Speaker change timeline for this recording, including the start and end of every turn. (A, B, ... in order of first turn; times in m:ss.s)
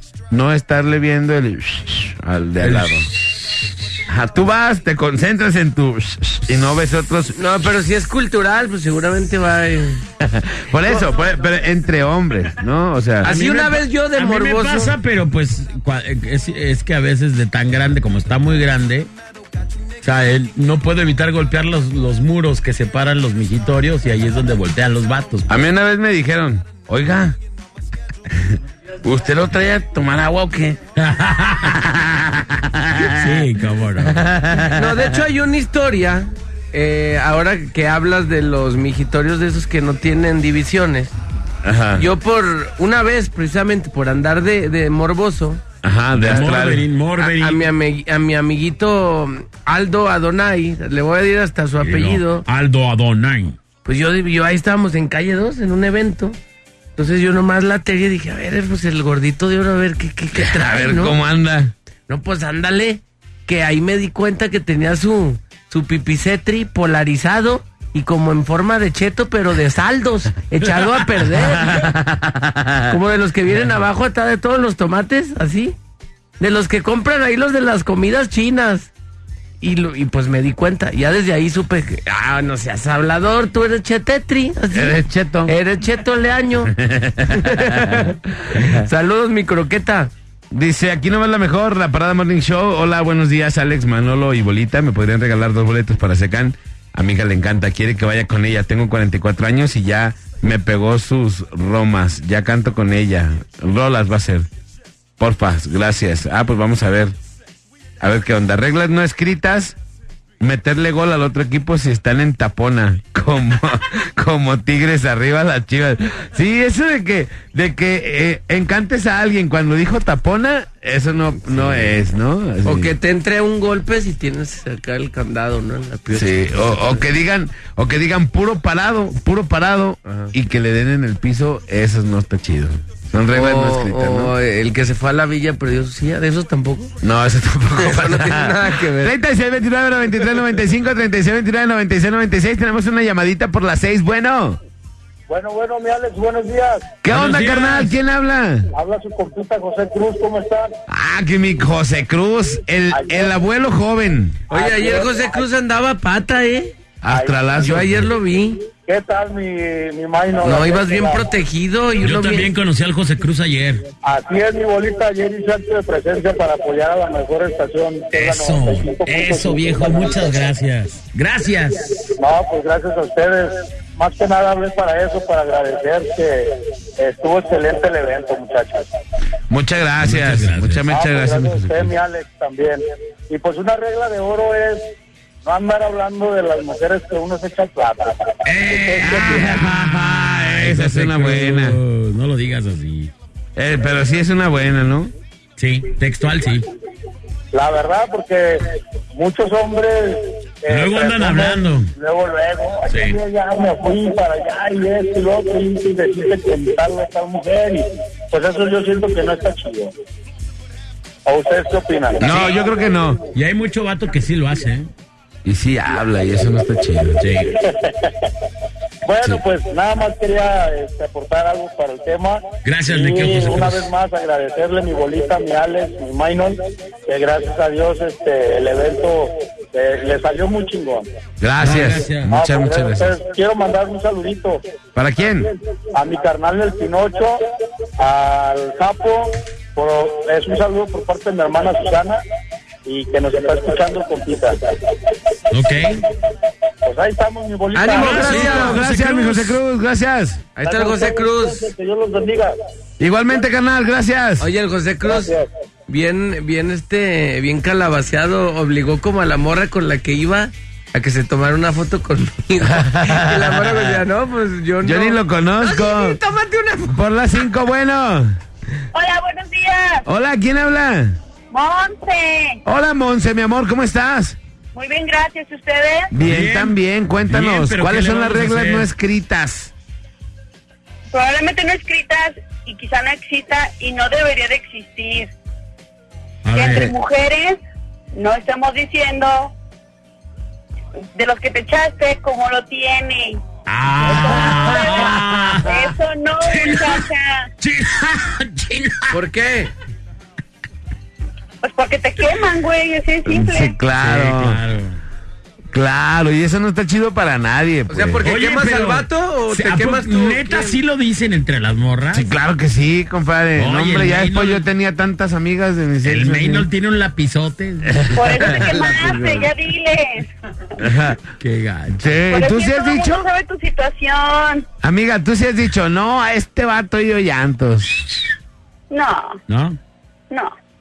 0:00.3-0:03.1 A
0:02.6-0:03.6 B
0:04.1-0:07.4 A
0:07.3-0:10.0 C
0:10.2-0:13.3 A
0:10.8-0:11.1 C
0:13.2-0:14.9 C
0:13.2-0:19.1 B
0:20.0-0:25.6 B
0:25.5-0:27.4 A
0:28.3-0:30.8 A
0:31.0-0:31.8 B
0:31.6-0:33.4 A
0:33.0-0:34.2 B
0:34.0-0:35.2 A
0:34.7-0:41.1 C
0:41.6-0:42.0 A
0:42.0-0:45.6 C
0:45.8-0:46.8 A
0:46.1-0:47.6 B
0:47.2-0:52.4 C
0:51.8-0:53.6 B
0:53.8-0:56.4 C
0:57.0-1:01.2 C
1:00.4-1:01.7 A
1:02.1-1:11.9 C
1:11.4-1:12.9 A
1:12.9-1:15.8 C
1:16.4-1:18.9 C
1:19.6-1:26.7 C
1:24.7-1:25.5 A
1:26.7-1:28.9 A
1:27.3-1:30.1 C
1:30.5-1:44.5 A
1:45.2-1:47.1 A
1:48.0-1:49.8 A
1:50.4-2:02.9 A
2:02.6-2:07.0 C
2:06.1-2:14.3 A
2:10.0-2:10.3 C
2:13.3-2:16.9 C
2:17.0-2:24.6 A
2:17.8-2:19.1 C
2:25.3-2:26.9 D
2:27.0-2:28.7 A
2:27.1-2:27.9 B
2:28.7-2:30.7 D
2:30.9-2:34.4 A
2:32.9-2:33.3 D
2:34.5-2:36.7 C
2:34.5-2:35.3 D
2:37.0-2:38.1 A
2:37.1-2:37.5 D
2:37.5-2:38.6 C
2:38.8-2:41.2 D
2:40.4-2:42.5 C
2:42.0-2:43.8 B
2:44.0-2:50.2 D
2:48.1-2:51.9 B
2:52.2-2:58.9 D
2:59.5-3:01.9 A
3:00.0-3:00.8 B
3:00.9-3:04.9 D
3:05.4-3:09.4 D
3:08.4-3:13.1 B
3:09.0-3:11.8 A
3:13.6-3:15.1 A
3:15.6-3:16.6 B
3:17.5-3:29.9 D
3:20.7-3:21.9 B
3:22.9-3:23.2 B
3:31.2-3:32.8 D
3:32.2-3:33.2 A
3:32.2-3:32.6 B
3:33.3-3:34.9 B
3:35.4-3:37.2 A
3:37.2-3:37.5 B
3:39.0-3:51.1 D
3:42.6-3:43.9 B
3:51.4-3:53.1 A
3:51.6-3:52.3 B
3:52.3-3:54.6 D
3:54.9-3:55.5 A
3:55.9-3:57.4 D
3:58.0-4:02.2 D
4:02.8-4:04.8 D
4:05.5-4:06.0 B
4:06.8-4:08.6 D
4:07.7-4:08.8 C
4:07.9-4:09.6 B
4:08.3-4:10.4 A
4:10.6-4:11.7 C
4:10.6-4:12.6 D
4:13.0-4:14.4 A
4:14.4-4:15.3 C
4:15.1-4:15.5 D
4:15.9-4:27.0 C
4:22.6-4:24.0 A
4:24.8-4:26.2 A
4:26.9-4:28.4 A
4:28.9-4:30.0 E
4:30.1-4:31.2 A
4:31.5-4:32.6 E
4:32.6-4:34.4 A
4:34.7-4:36.1 E
4:36.1-4:39.7 A
4:36.2-4:36.8 B
4:37.3-4:38.9 B
4:41.1-4:45.3 E
4:46.4-4:46.9 B
4:46.5-4:47.6 E
4:48.1-4:49.5 E
4:51.1-4:53.4 E
4:53.7-4:57.0 B
4:54.1-4:57.5 E
4:57.6-4:59.1 B
4:59.1-4:59.7 C
5:01.6-5:03.7 E
5:03.2-5:04.6 A
5:04.0-5:05.0 B
5:05.7-5:08.2 A
5:07.9-5:10.8 C
5:08.2-5:12.3 B
5:12.1-5:16.6 A
5:13.6-5:14.6 B
5:16.0-5:18.1 B
5:17.9-5:18.4 A
5:18.1-5:20.3 E
5:18.4-5:19.5 C
5:20.8-5:21.2 A
5:21.4-5:22.0 B
5:21.9-5:23.2 A
5:22.3-5:24.6 E
5:24.8-5:28.1 A
5:28.9-5:29.4 E
5:29.5-5:29.8 B